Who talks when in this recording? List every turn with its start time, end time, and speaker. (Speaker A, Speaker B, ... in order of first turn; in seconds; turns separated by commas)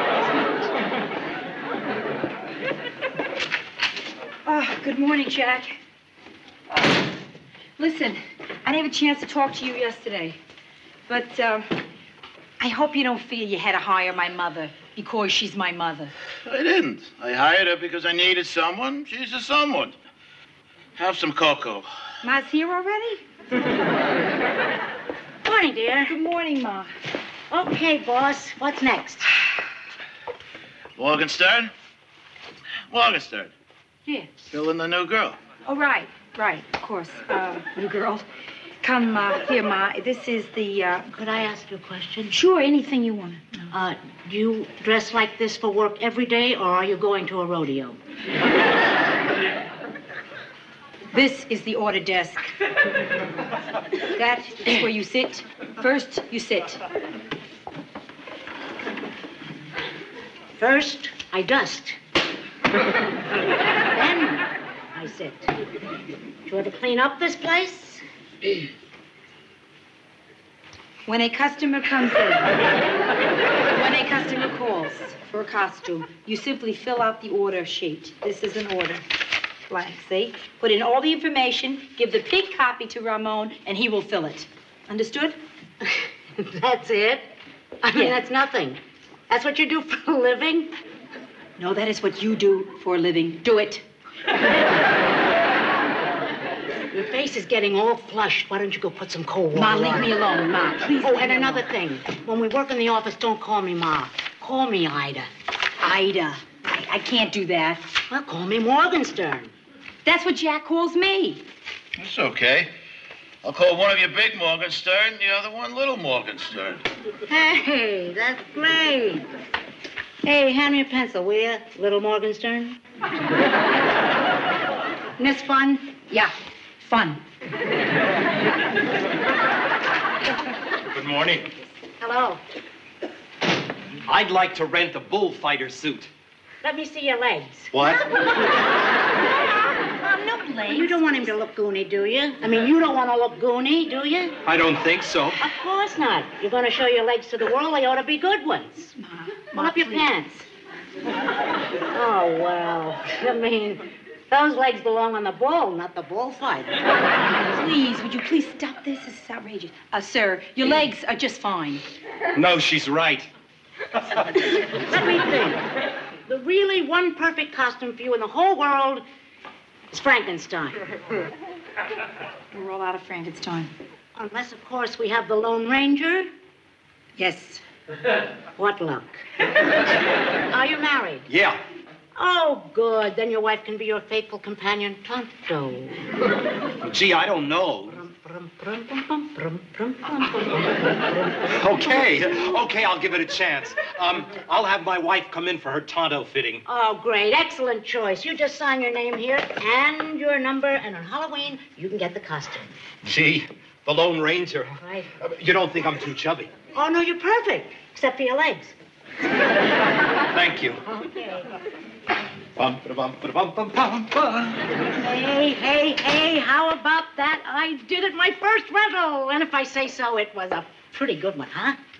Speaker A: 4.5-5.8, Speaker A: 7.8-10.4, Speaker A: 11.1-11.7, Speaker A: 12.6-16.1, Speaker B: 16.4-19.9, Speaker B: 20.9-21.9, Speaker A: 22.2-23.2, Speaker C: 25.4-26.1, Speaker A: 26.1-26.9, Speaker C: 27.5-29.3, Speaker B: 30.9-31.7, Speaker B: 32.9-33.5, Speaker B: 34.5-35.4, Speaker A: 35.6-38.2, Speaker A: 38.8-41.1, Speaker C: 41.1-42.4, Speaker A: 42.3-43.7, Speaker C: 43.7-48.0, Speaker A: 51.1-52.4, Speaker A: 54.1-56.8, Speaker C: 60.6-62.0, Speaker C: 63.9-65.5, Speaker C: 66.5-68.0, Speaker A: 71.0-72.6, Speaker A: 73.7-79.0, Speaker A: 79.7-85.4, Speaker C: 85.8-90.7, Speaker A: 91.6-93.8, Speaker C: 96.9-100.2, Speaker A: 99.5-101.7, Speaker C: 101.0-105.3, Speaker A: 105.8-107.8, Speaker C: 108.1-109.5, Speaker A: 110.0-111.4, Speaker B: 112.0-112.7, Speaker B: 113.4-116.8, Speaker C: 117.3-119.3, Speaker C: 120.2-122.8, Speaker C: 125.2-125.8, Speaker A: 125.9-127.2, Speaker B: 130.9-131.5, Speaker C: 132.0-132.4, Speaker D: 134.1-136.1, Speaker C: 136.6-138.2, Speaker D: 137.7-138.0, Speaker A: 139.8-141.3, Speaker C: 140.7-144.4, Speaker D: 144.4-145.4, Speaker C: 145.4-148.9, Speaker A: 149.0-150.4, Speaker C: 149.5-150.3, Speaker C: 151.9-156.8, Speaker A: 157.3-161.8, Speaker D: 162.3-163.3, Speaker D: 163.9-164.3, Speaker C: 164.7-165.6, Speaker C: 166.2-169.0, Speaker C: 169.9-170.8, Speaker A: 172.5-173.7, Speaker C: 174.1-176.3, Speaker A: 177.2-177.6, Speaker C: 178.6-179.2, Speaker C: 180.5-181.3, Speaker D: 181.3-181.6, Speaker C: 182.1-186.0, Speaker D: 186.8-188.0, Speaker C: 187.9-191.3, Speaker D: 191.4-196.6, Speaker C: 196.6-202.7, Speaker D: 203.0-206.5, Speaker C: 204.8-205.1, Speaker C: 206.7-208.7, Speaker D: 210.3-210.8, Speaker C: 210.8-211.5, Speaker D: 212.6-214.6, Speaker C: 214.8-221.8